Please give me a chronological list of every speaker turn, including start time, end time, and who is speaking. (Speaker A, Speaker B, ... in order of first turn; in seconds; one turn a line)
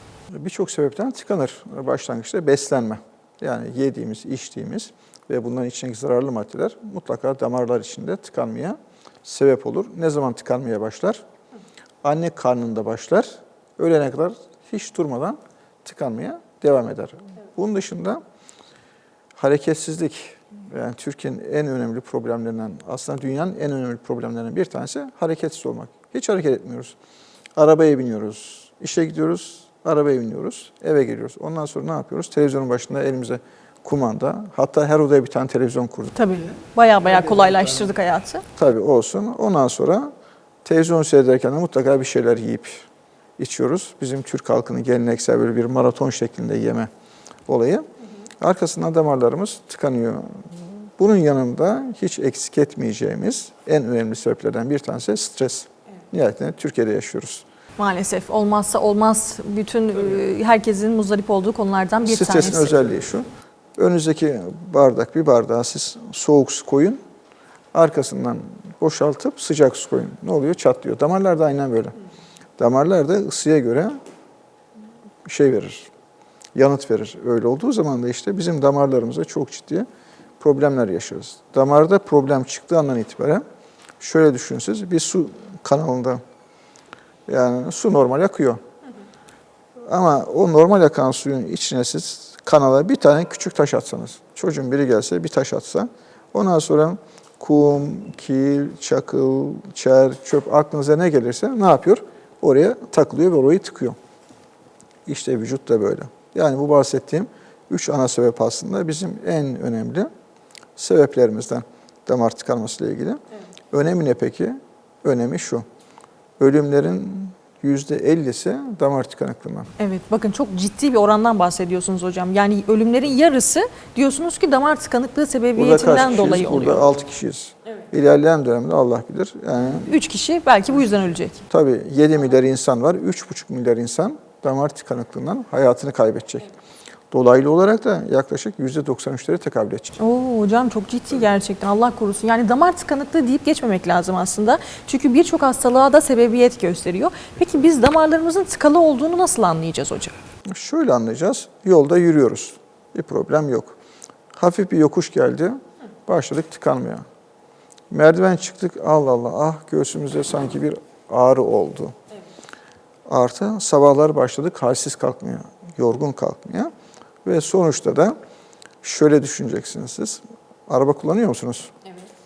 Speaker A: 0.3-11.2
Speaker A: 12.0-18.2
Speaker A: 19.4-27.0
Speaker A: 27.6-36.2
Speaker B: 36.1-38.4
Speaker A: 38.6-40.1
Speaker A: 40.6-42.9
Speaker A: 43.4-46.9
Speaker A: 47.5-47.8
Speaker A: 48.4-57.4
Speaker B: 57.8-62.8
Speaker A: 62.0-63.2
Speaker A: 63.8-67.0
Speaker A: 67.7-71.9
Speaker A: 72.6-74.0
Speaker A: 75.2-75.9
Speaker A: 76.5-79.8
Speaker A: 80.4-83.4
Speaker A: 84.0-86.2
Speaker A: 87.3-88.6
Speaker A: 89.8-104.0
Speaker A: 105.1-110.1
Speaker A: 110.8-115.6
Speaker A: 116.4-119.7
Speaker B: 119.8-126.9
Speaker A: 125.6-129.9
Speaker B: 129.8-131.4
Speaker A: 131.5-136.5
Speaker A: 137.1-140.0
Speaker B: 140.0-150.2
Speaker A: 150.5-153.8
Speaker A: 154.3-157.0
Speaker A: 157.9-161.9
Speaker A: 163.1-166.7
Speaker A: 167.2-168.1
Speaker A: 168.8-171.7